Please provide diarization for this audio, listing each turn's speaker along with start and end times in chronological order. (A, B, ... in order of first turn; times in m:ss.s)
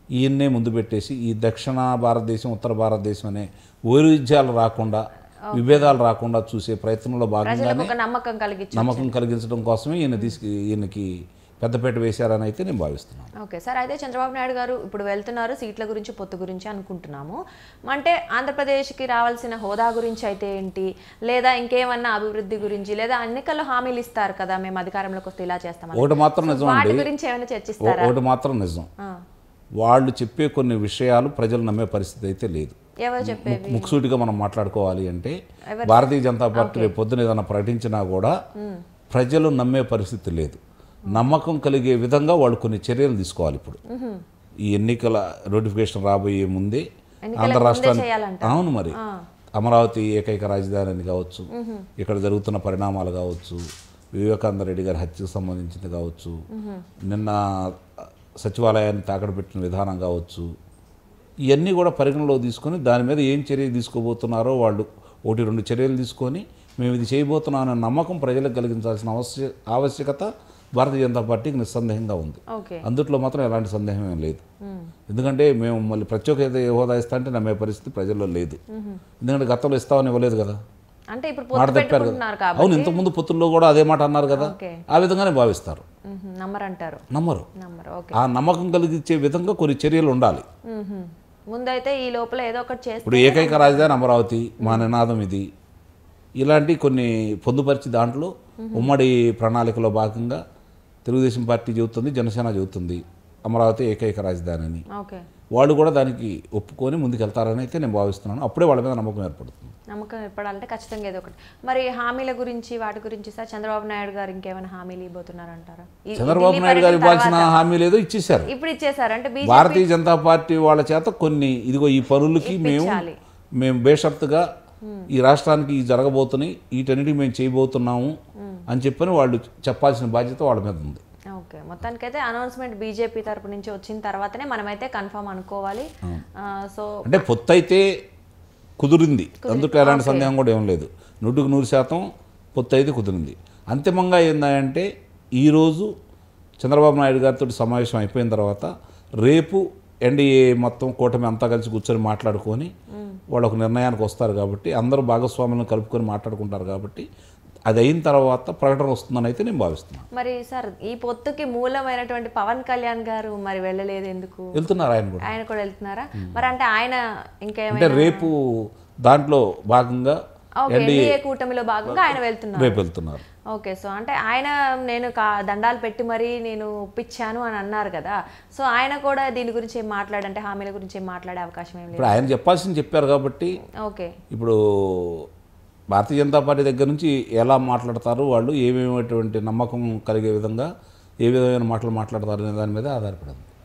0:00.2-0:07.9 A
0:05.5-0:06.0 B
0:07.4-0:09.2 B
0:08.7-0:11.1 A
0:11.6-0:13.3 A
0:13.4-0:17.4 B
0:17.9-0:28.1 B
0:25.9-0:27.1 A
0:27.8-0:28.9 A
0:29.8-0:38.3 A
0:33.0-0:34.0 B
0:35.7-0:36.9 B
0:38.6-0:38.8 B
0:39.1-0:43.8 A
0:43.9-0:44.2 B
0:44.7-0:49.0 A
0:47.3-0:49.2 B
0:49.6-0:51.4 A
0:51.5-0:51.9 B
0:52.0-0:53.6 A
0:54.2-0:56.4 A
0:56.5-0:56.9 B
0:57.1-0:57.8 A
0:58.4-1:00.5 A
1:01.5-1:14.4 A
1:12.5-1:12.9 B
1:14.6-1:14.9 B
1:15.1-1:18.6 A
1:18.7-1:19.0 B
1:19.2-1:20.6 A
1:21.1-1:23.0 B
1:21.5-1:25.8 A
1:24.3-1:24.8 B
1:26.1-1:27.0 B
1:27.1-1:27.5 A
1:27.6-1:28.2 B
1:28.1-1:30.4 A
1:30.7-1:34.0 B
1:33.0-1:35.5 A
1:34.6-1:34.9 B
1:36.4-1:40.4 A
1:38.6-1:38.9 B
1:41.0-1:44.8 A
1:44.9-1:45.2 B
1:45.6-1:49.7 A
1:49.9-1:57.7 B
1:56.2-1:58.5 A
1:58.5-1:59.9 B
1:59.4-2:03.0 A
2:02.4-2:03.2 B
2:03.6-2:04.5 A
2:04.8-2:05.1 B
2:05.1-2:08.2 A
2:08.7-2:11.0 A
2:11.4-2:15.9 B
2:16.4-2:17.1 B
2:17.0-2:17.9 A
2:18.8-2:24.9 A
2:19.4-2:20.3 B
2:25.4-2:25.9 A
2:26.6-2:28.7 A
2:29.2-2:32.7 A
2:33.0-2:33.2 B
2:33.3-2:37.1 A
2:37.7-2:40.1 A
2:40.1-2:44.6 B
2:44.6-2:45.3 A
2:45.2-2:48.3 B
2:46.2-2:46.5 A
2:47.7-2:51.2 A
2:50.6-2:52.8 B
2:51.9-2:53.2 A
2:53.5-3:02.2 B
3:01.9-3:03.6 A
3:03.8-3:04.2 B
3:04.3-3:05.3 A
3:05.9-3:10.7 A
3:11.2-3:13.5 A